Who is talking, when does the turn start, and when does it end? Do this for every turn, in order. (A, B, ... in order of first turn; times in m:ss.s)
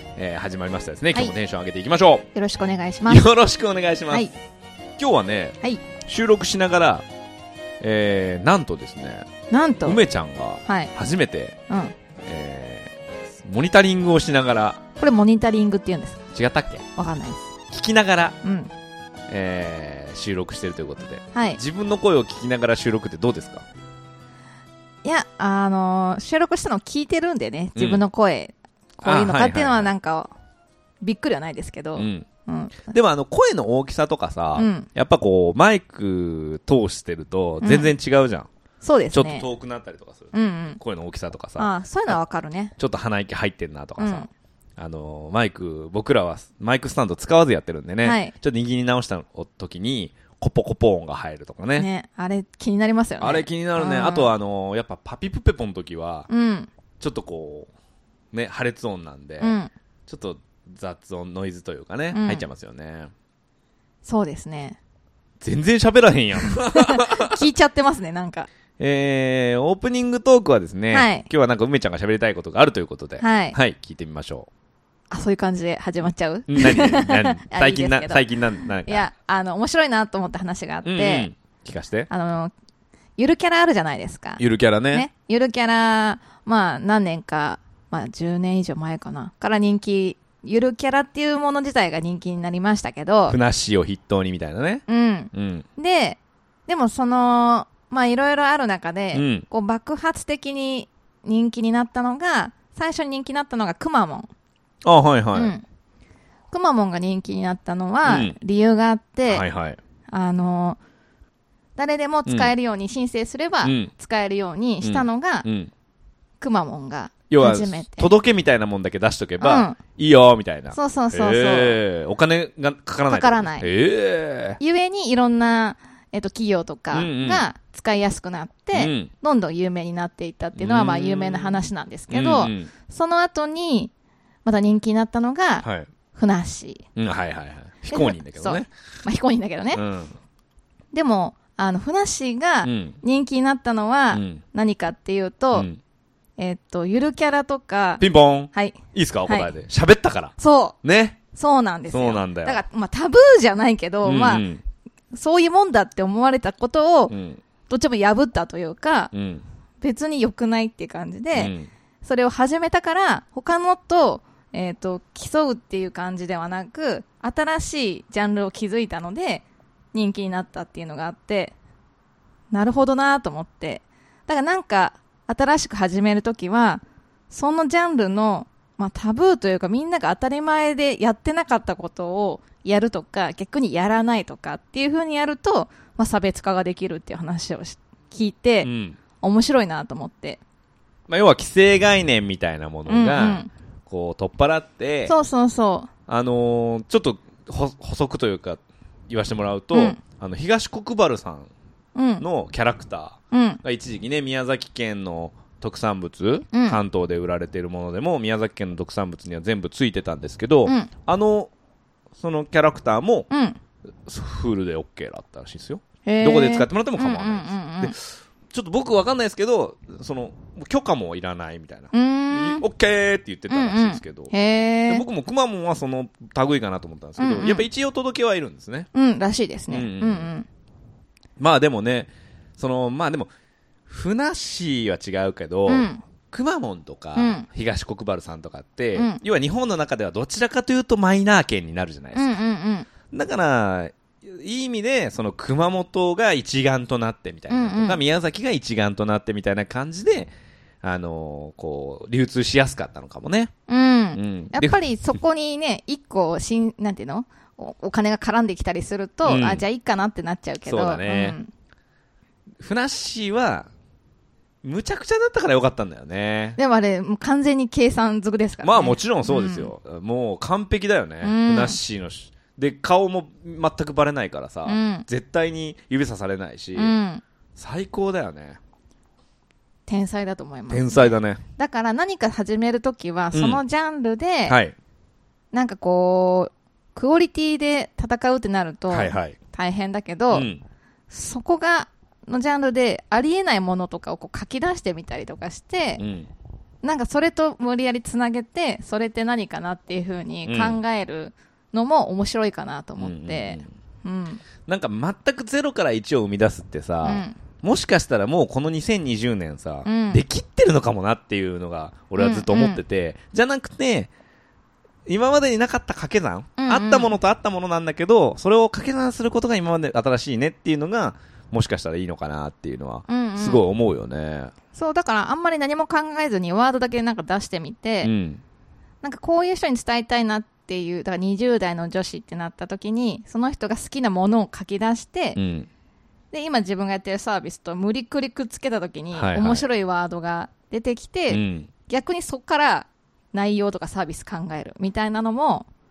0:00.2-0:02.2 A
0:02.3-0:03.3 B
0:03.1-0:04.3 A
0:05.0-0:07.0 A
0:07.8-0:09.3 A
0:09.5-0:10.0 B
0:09.8-0:11.6 A
0:10.6-0:10.9 B
0:11.7-0:11.9 B
0:12.2-0:14.8 A
0:15.0-0:16.2 B
0:16.3-0:16.9 A
0:17.0-0:17.5 B
0:17.7-0:18.4 A
0:18.4-0:18.7 B
0:19.3-0:23.6 A
0:21.3-0:21.6 B
0:25.0-0:30.3 B
0:27.8-0:28.0 A
0:29.0-0:29.9 A
0:31.0-0:32.9 B
0:32.0-0:32.2 A
0:32.9-0:38.5 A
0:34.5-0:34.9 B
0:37.6-0:37.9 B
0:38.8-0:39.4 B
0:39.1-0:42.2 A
0:40.3-0:40.8 B
0:41.6-0:42.7 B
0:42.8-0:51.9 A
0:44.0-0:44.3 B
0:48.0-0:48.3 B
0:51.8-0:54.3 B
0:53.2-0:56.3 A
0:56.3-0:56.7 B
0:57.0-0:57.7 A
0:58.3-1:03.1 A
0:59.4-0:59.7 B
1:02.1-1:02.4 B
1:04.0-1:04.8 B
1:05.4-1:07.4 A
1:06.7-1:08.5 B
1:08.8-1:14.5 A
1:10.9-1:11.3 B
1:13.2-1:13.6 B
1:15.1-1:18.2 B
1:16.5-1:19.1 A
1:18.8-1:21.3 B
1:20.8-1:22.1 A
1:22.1-1:22.5 B
1:23.2-1:33.4 B
1:24.4-1:25.1 A
1:33.3-1:35.6 A
1:34.9-1:44.3 B
1:39.1-1:39.4 A
1:44.8-1:45.5 A
1:45.3-1:45.6 B
1:46.5-1:49.4 B
1:48.0-1:48.4 A
1:49.3-1:49.8 A
1:50.1-1:50.8 B
1:51.8-1:55.4 B
1:52.2-1:52.5 A
1:53.6-1:53.9 A
1:54.8-1:55.7 A
1:56.4-1:58.1 B
1:57.3-2:04.6 A
1:59.4-1:59.8 B
2:00.7-2:01.8 B
2:03.1-2:03.7 B
2:04.6-2:13.9 B
2:06.9-2:07.4 A
2:08.7-2:09.1 A
2:10.6-2:12.7 A
2:14.4-2:16.8 B
2:15.6-2:15.9 A
2:17.0-2:18.7 A
2:17.9-2:19.8 B
2:19.7-2:20.2 A
2:20.9-2:25.7 B
2:22.6-2:23.0 A
2:24.1-2:24.4 A
2:25.5-2:25.8 A
2:26.4-2:29.5 B
2:28.0-2:31.2 A
2:30.4-2:30.8 B
2:31.3-2:34.4 B
2:31.9-2:32.6 A
2:34.0-2:34.6 A
2:35.1-2:37.1 B
2:37.1-2:37.4 A
2:37.7-2:39.1 B
2:39.1-2:39.4 A
2:39.8-2:51.5 B
2:41.3-2:41.7 A
2:52.5-3:08.7 B
3:08.6-3:09.0 A
3:09.2-3:10.4 B
3:11.1-3:15.1 A
3:12.8-3:13.5 B
3:15.0-3:15.9 B
3:16.1-3:21.5 A
3:19.7-3:20.0 B
3:21.9-3:22.2 B
3:22.2-3:31.5 A
3:23.3-3:23.6 B
3:26.5-3:26.8 B
3:30.6-3:30.9 B
3:32.2-3:33.3 A
3:33.3-3:33.6 B
3:34.1-3:44.3 A
3:36.0-3:37.9 B
3:41.9-3:42.6 B
3:43.5-3:45.0 B
3:44.9-3:48.9 A
3:47.2-3:47.6 B
3:48.9-3:50.5 B
3:49.7-3:50.3 A
3:51.4-3:53.3 A
3:53.9-4:02.4 A
3:55.7-3:56.0 B
3:57.2-3:57.5 B
3:58.9-3:59.2 B
4:02.1-4:02.9 B
4:03.1-4:13.5 A
4:07.5-4:08.0 B
4:13.7-4:21.5 B
4:14.1-4:15.2 A
4:19.2-4:19.6 A
4:20.6-4:21.4 A
4:22.6-4:23.7 A
4:24.6-4:26.6 A
4:26.6-4:29.7 B
4:28.6-4:37.0 A
4:31.2-4:31.8 B
4:34.6-4:35.1 B
4:36.7-4:37.2 B
4:37.6-4:38.6 A
4:39.9-4:44.6 B
4:40.7-4:41.4 A
4:43.3-4:43.6 A
4:44.5-4:44.7 A
4:45.5-4:50.5 B
4:48.9-4:49.4 A
4:50.3-4:50.6 A
4:51.1-4:56.0 B
4:56.0-4:56.3 A
4:56.8-5:04.4 B
5:00.4-5:00.8 A
5:03.0-5:03.7 A
5:04.6-5:14.1 A
5:07.0-5:07.4 B
5:09.8-5:10.2 B
5:12.2-5:12.8 B
5:15.1-5:24.5 A
5:16.6-5:17.1 B
5:23.1-5:23.6 B
5:24.7-5:28.1 B
5:28.0-5:28.4 A
5:29.0-5:35.4 B
5:35.3-5:35.7 A
5:36.3-5:45.7 B
5:39.1-5:39.6 A
5:41.3-5:41.7 A